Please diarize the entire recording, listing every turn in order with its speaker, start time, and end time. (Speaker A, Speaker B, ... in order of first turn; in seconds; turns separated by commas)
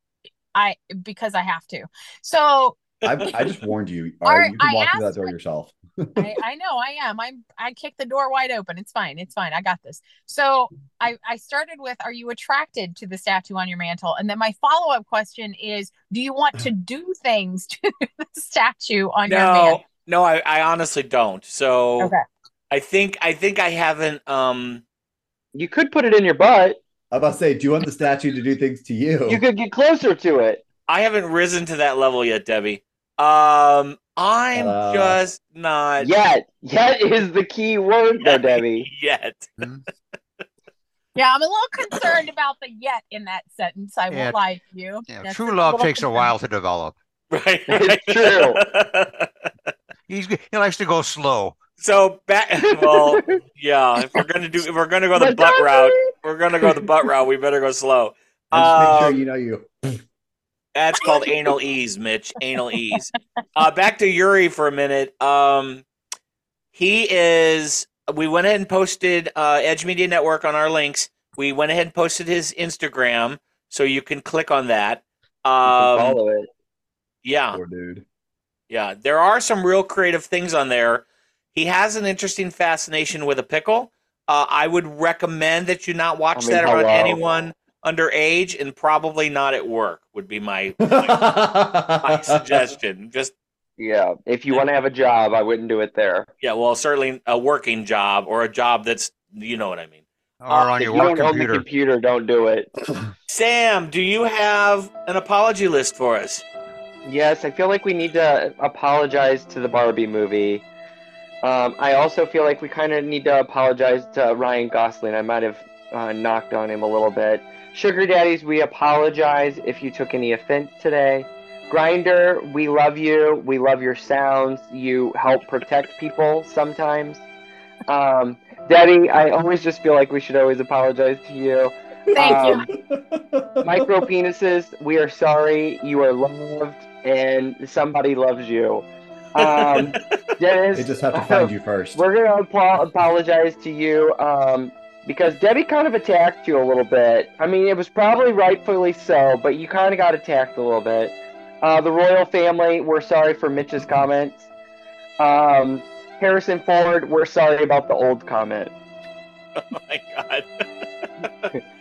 Speaker A: 0.5-2.8, Speaker B: 3.0-6.3, Speaker C: 3.1-3.5, Speaker A: 4.2-5.3, Speaker A: 6.2-19.8, Speaker C: 19.3-22.1, Speaker C: 22.7-24.8, Speaker D: 25.5-26.8, Speaker B: 27.1-29.4, Speaker D: 29.3-30.6, Speaker C: 30.9-36.1, Speaker B: 34.5-35.2, Speaker D: 36.0-38.9, Speaker C: 38.2-39.5, Speaker E: 39.6-39.8, Speaker A: 41.1-46.3, Speaker E: 44.1-44.4, Speaker E: 45.1-47.0, Speaker C: 47.3-49.3, Speaker D: 47.7-48.6, Speaker E: 50.1-51.6, Speaker C: 51.8-59.2, Speaker D: 52.8-53.4, Speaker D: 55.1-56.1, Speaker B: 58.5-60.0, Speaker C: 60.7-65.8, Speaker A: 61.0-61.5, Speaker C: 66.7-76.2, Speaker D: 75.7-76.5, Speaker C: 77.2-77.6, Speaker B: 77.5-78.0, Speaker C: 78.7-91.2, Speaker D: 86.3-87.5, Speaker B: 90.8-92.6, Speaker C: 92.0-93.3, Speaker D: 93.8-96.3, Speaker C: 96.4-100.8, Speaker E: 100.4-101.7, Speaker D: 100.8-102.7, Speaker C: 103.3-106.4, Speaker D: 107.0-110.7, Speaker D: 111.4-127.2, Speaker D: 127.9-132.7, Speaker B: 132.1-134.1, Speaker A: 132.1-132.7, Speaker D: 133.6-154.4, Speaker C: 139.4-140.1, Speaker B: 140.7-142.0, Speaker D: 155.2-158.7, Speaker C: 159.6-160.5, Speaker C: 161.2-161.5